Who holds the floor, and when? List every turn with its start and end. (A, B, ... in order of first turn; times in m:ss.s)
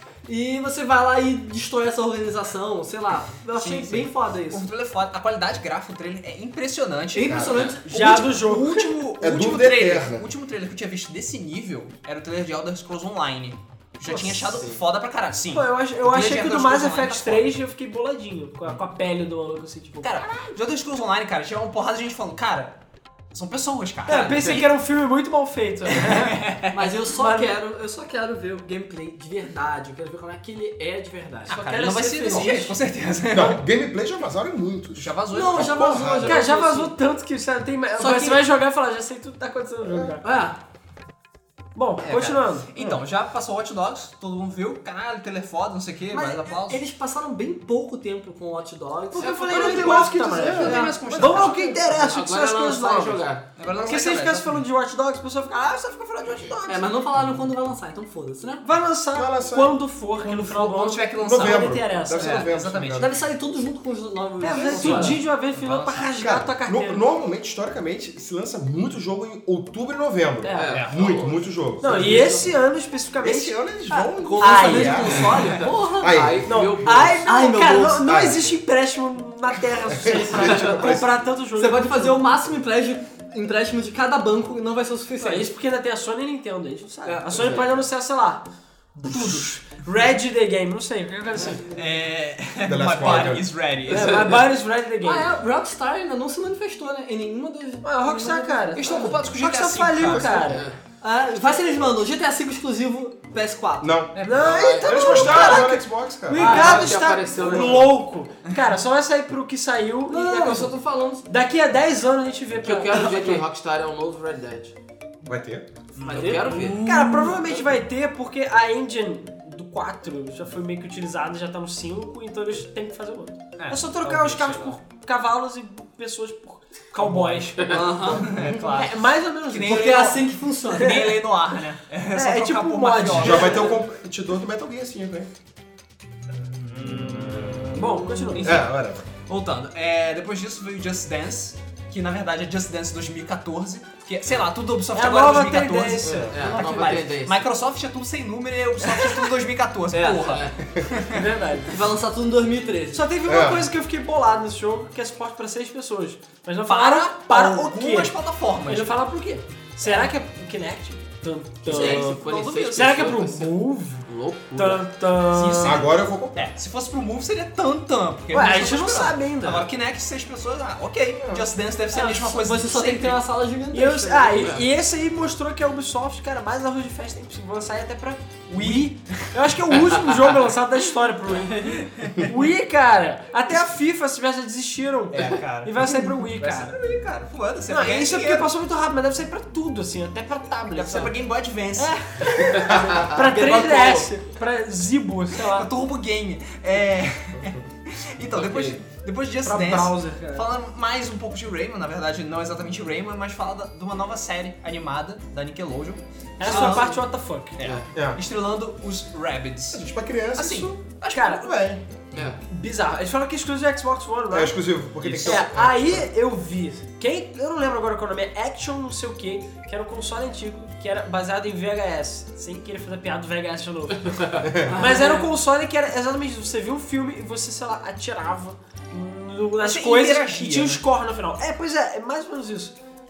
0:00.3-0:04.6 A
0:03.6-0:17.5 B
0:07.1-0:08.2 A
0:07.3-0:07.7 C
0:07.9-0:08.9 D
0:09.2-0:10.3 C
0:14.1-0:14.4 D
0:15.5-0:20.2 D
0:20.0-0:22.8 B
0:23.3-0:24.7 B
0:24.1-0:26.4 D
0:24.1-0:24.4 A
0:25.9-0:26.8 B
0:26.7-0:31.6 A
0:27.1-0:27.5 D
0:31.5-0:32.7 D
0:31.5-0:33.6 B
0:32.2-0:32.5 A
0:33.3-0:36.4 C
0:35.0-0:36.1 B
0:35.3-0:37.0 A
0:36.2-0:40.2 D
0:38.0-0:38.4 A
0:39.8-0:40.2 C
0:40.2-0:40.6 A
0:41.7-0:42.7 D
0:42.0-0:46.8 B
0:46.1-0:51.5 A
0:49.1-0:53.2 D
0:49.2-0:50.7 E
0:50.4-0:50.8 C
0:50.5-0:51.6 B
0:51.3-0:51.7 C
0:51.9-0:53.5 E
0:53.6-0:54.6 B
0:53.8-0:56.9 D
0:56.7-0:58.6 A
0:58.6-1:02.5 D
0:59.1-1:00.4 C
1:00.2-1:03.2 B
1:01.2-1:03.1 C
1:02.9-1:05.2 A
1:04.4-1:07.1 D
1:04.8-1:05.1 E
1:04.8-1:05.1 C
1:04.9-1:06.0 B
1:06.1-1:12.2 C
1:10.4-1:10.8 D
1:10.5-1:12.6 E
1:10.7-1:11.0 B
1:11.8-1:13.6 D
1:13.2-1:15.4 C
1:13.9-1:16.2 A
1:14.4-1:15.3 D
1:15.5-1:17.2 E
1:16.0-1:16.6 C
1:16.4-1:22.2 D
1:17.2-1:18.1 A
1:18.0-1:18.6 C
1:19.8-1:21.1 C
1:21.5-1:25.5 A
1:25.2-1:31.7 D
1:27.1-1:27.7 E
1:31.7-1:34.3 B
1:32.6-1:33.5 C
1:33.9-1:35.3 D
1:33.9-1:34.4 E
1:35.0-1:39.2 A
1:37.8-1:40.7 D
1:38.7-1:40.6 B
1:40.0-1:40.3 C
1:40.4-1:40.8 E
1:41.0-1:44.0 A
1:43.8-1:46.7 C
1:44.1-1:44.5 B
1:44.2-1:53.4 D
1:44.3-1:45.6 E
1:45.2-1:45.7 A
1:46.4-1:47.0 A
1:46.4-1:48.0 E
1:50.1-1:51.2 A
1:52.6-1:54.7 E
1:55.2-1:55.7 C
1:55.9-1:56.8 B
1:56.0-1:56.9 E
1:56.1-1:57.4 A
1:56.8-2:10.0 D
2:03.6-2:04.8 B
2:07.0-2:13.7 B
2:07.6-2:08.3 A
2:09.6-2:11.1 A
2:10.7-2:11.3 D
2:12.1-2:13.8 D
2:13.1-2:15.3 C
2:16.5-2:18.7 B
2:17.7-2:18.6 D
2:18.4-2:19.0 C
2:19.2-2:31.2 B
2:24.9-2:26.8 D
2:26.0-2:26.4 C
2:26.2-2:27.4 E
2:28.9-2:29.3 D
2:30.0-2:30.6 E
2:31.1-2:31.8 D
2:31.7-2:33.1 A
2:32.9-2:42.2 D
2:33.2-2:33.7 C
2:36.6-2:38.9 B
2:41.6-2:44.9 E
2:41.7-2:43.2 B
2:42.7-2:45.9 D
2:45.3-2:53.2 B
2:45.6-2:46.4 C
2:48.3-2:49.7 D
2:51.9-2:54.6 A
2:53.7-3:06.8 D
2:54.4-2:54.6 E
2:58.5-2:59.4 B
3:01.6-3:02.3 B
3:05.1-3:08.5 B
3:07.7-3:11.1 D
3:10.7-3:12.0 B
3:11.8-3:15.7 D
3:12.6-3:13.4 E
3:13.2-3:14.1 A
3:15.4-3:27.0 B
3:18.4-3:18.8 E
3:19.4-3:20.5 D
3:26.4-3:27.6 D
3:26.5-3:26.9 A
3:27.6-3:29.8 B
3:27.6-3:27.9 E
3:27.9-3:28.2 C
3:29.7-3:30.8 C
3:30.4-3:31.6 B
3:31.1-3:31.4 D
3:31.4-3:31.8 C
3:32.1-3:32.4 E
3:32.4-3:34.6 D
3:34.3-3:36.1 C
3:35.0-3:35.5 B
3:35.2-3:52.7 D
3:44.4-3:44.8 C
3:44.7-3:45.3 A
3:49.6-3:50.8 B